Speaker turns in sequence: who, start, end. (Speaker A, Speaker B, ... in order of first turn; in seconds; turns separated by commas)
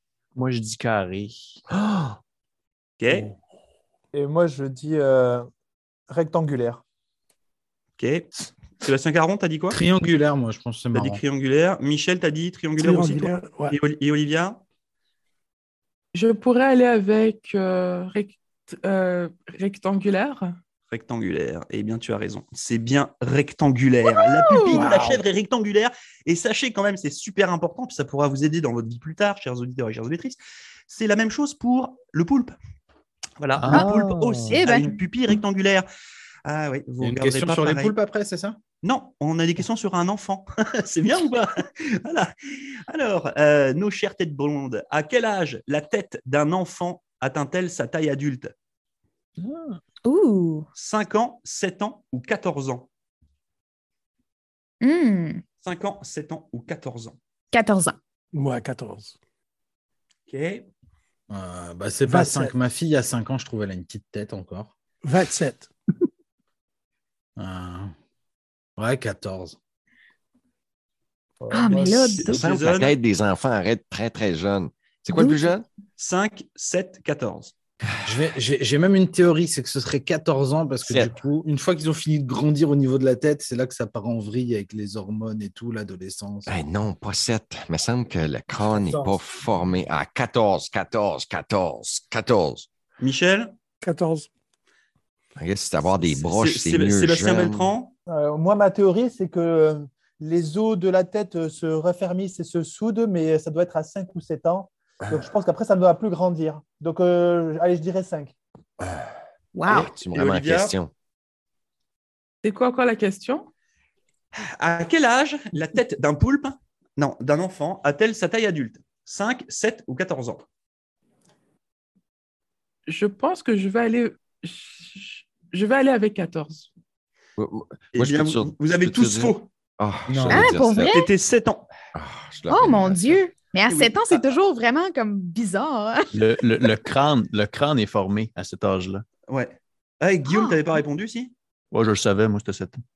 Speaker A: 0.3-1.6, Speaker B: 3.0-3.3, Speaker C: 4.1-5.5, Speaker C: 6.1-6.8, Speaker B: 8.0-9.8, Speaker D: 9.7-11.2, Speaker B: 10.9-14.6, Speaker E: 12.8-13.8, Speaker F: 16.1-20.5, Speaker B: 20.9-32.6, Speaker G: 24.1-24.9, Speaker E: 24.8-25.1, Speaker B: 33.4-35.9, Speaker A: 33.5-34.6, Speaker G: 33.7-34.9, Speaker B: 36.5-37.9, Speaker D: 37.0-38.6, Speaker B: 38.8-42.3, Speaker B: 42.9-48.5, Speaker D: 49.4-49.8, Speaker G: 50.0-50.7, Speaker B: 50.8-52.9, Speaker G: 54.8-55.4, Speaker B: 55.6-57.2, Speaker G: 57.5-58.0, Speaker E: 58.3-59.1, Speaker B: 60.3-60.6, Speaker D: 61.3-64.7, Speaker E: 62.0-62.5, Speaker E: 65.0-65.7, Speaker D: 67.4-67.9, Speaker D: 68.8-69.6, Speaker C: 71.4-72.2, Speaker G: 71.5-72.4, Speaker B: 71.7-72.9, Speaker H: 72.2-75.6, Speaker G: 75.1-75.5, Speaker B: 76.0-77.5, Speaker D: 78.0-86.5, Speaker H: 80.8-81.1, Speaker H: 86.5-92.7, Speaker C: 88.7-89.1, Speaker B: 93.0-93.5, Speaker E: 93.8-94.3, Speaker H: 95.4-97.7, Speaker B: 96.0-97.9, Speaker C: 98.1-108.3, Speaker G: 109.5-109.9, Speaker H: 109.7-110.9, Speaker B: 109.7-110.7, Speaker F: 112.4-113.5, Speaker B: 114.3-120.4, Speaker F: 122.9-126.7, Speaker H: 127.4-131.0, Speaker B: 127.9-129.5, Speaker D: 130.1-130.5, Speaker G: 130.3-131.1, Speaker B: 130.9-131.7, Speaker H: 131.9-133.2, Speaker G: 132.5-136.1, Speaker B: 133.7-134.2, Speaker A: 136.1-139.0, Speaker B: 139.3-141.3, Speaker G: 140.3-140.6, Speaker A: 141.7-142.8